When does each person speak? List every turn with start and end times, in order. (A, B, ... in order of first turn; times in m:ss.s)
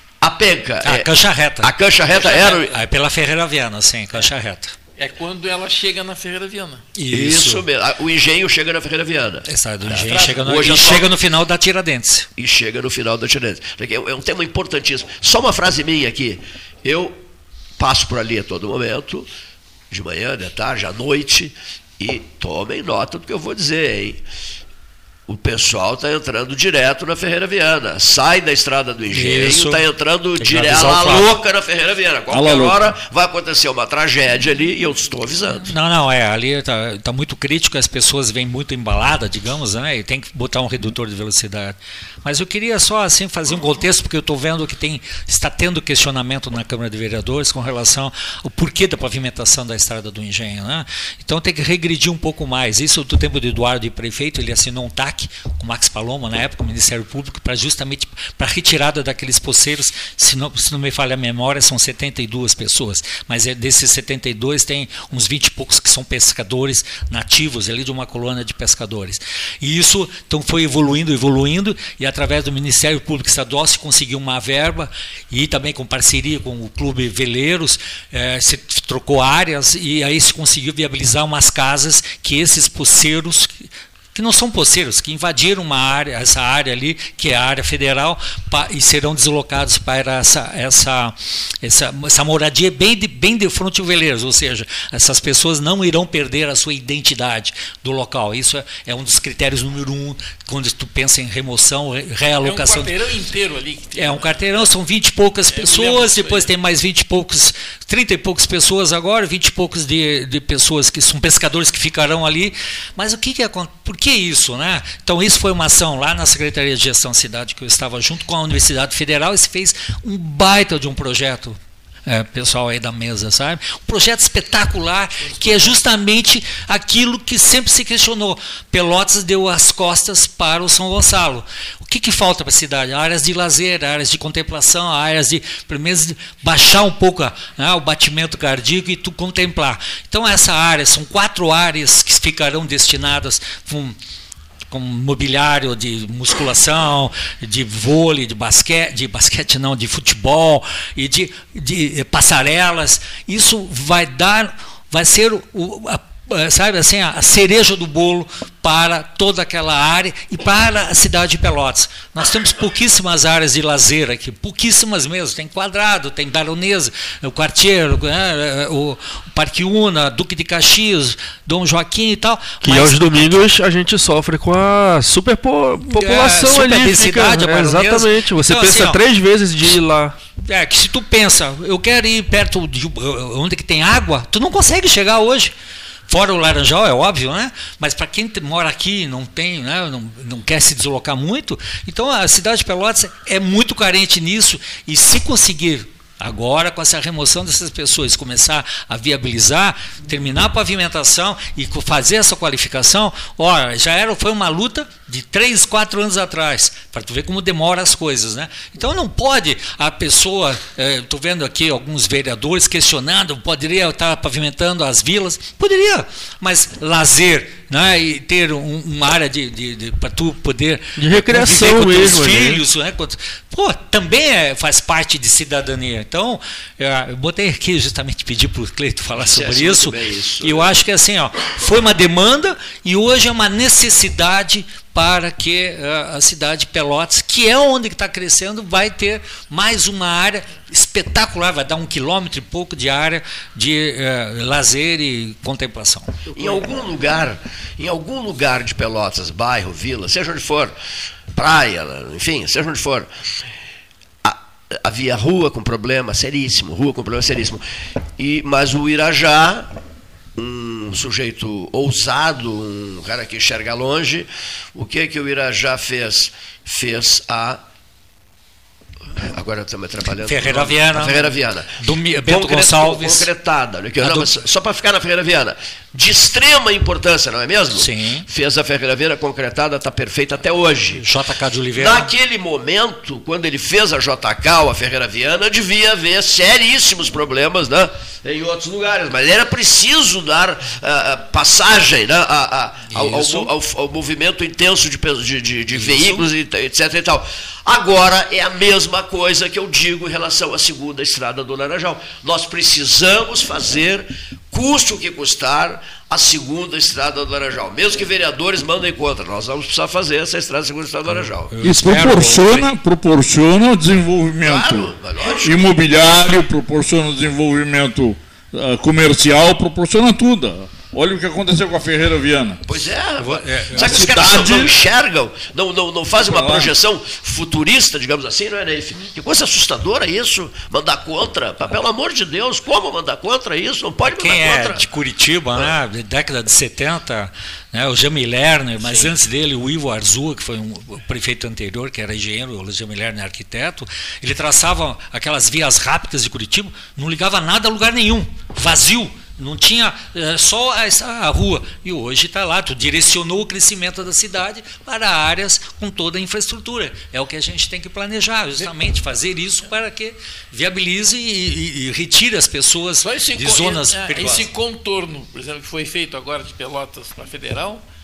0:00.2-0:02.8 A
0:00.8-0:04.8 B
0:05.0-0:06.8 C
0:07.0-0:07.7 B
0:07.1-0:11.1 A
0:09.5-0:12.3 B
0:12.4-0:17.2 A
0:17.8-0:19.3 A
0:19.9-0:24.2 A
0:25.3-0:35.7 A
0:29.1-0:29.8 B
0:30.4-0:31.4 B
0:32.3-0:32.8 D
0:35.6-1:42.9 B
1:42.4-1:44.7 C
1:44.0-2:24.0 B
1:45.5-1:46.5 C
2:05.2-2:05.8 C
2:24.7-2:53.4 B
2:52.6-3:00.2 E
2:55.9-2:59.0 B
3:00.4-3:05.5 B
3:06.1-4:06.2 B
3:41.0-3:42.6 E
3:49.2-3:50.7 A
4:06.3-4:10.8 A
4:11.3-4:13.1 A
4:14.2-4:17.6 A
4:18.2-4:19.7 A
4:20.4-4:27.6 A
4:29.2-4:41.0 A
4:30.2-4:33.3 B
4:34.0-4:34.3 B
4:37.8-4:38.3 B
4:41.0-4:42.1 B
4:41.8-5:11.5 A
4:52.9-4:53.5 B
4:55.7-4:56.3 B
5:11.1-5:12.7 B
5:11.6-5:22.6 D
5:14.4-5:15.7 A
5:22.7-5:34.9 A
5:23.2-5:24.7 B
5:26.2-5:26.7 D
5:34.0-6:04.5 B
6:03.0-6:07.8 C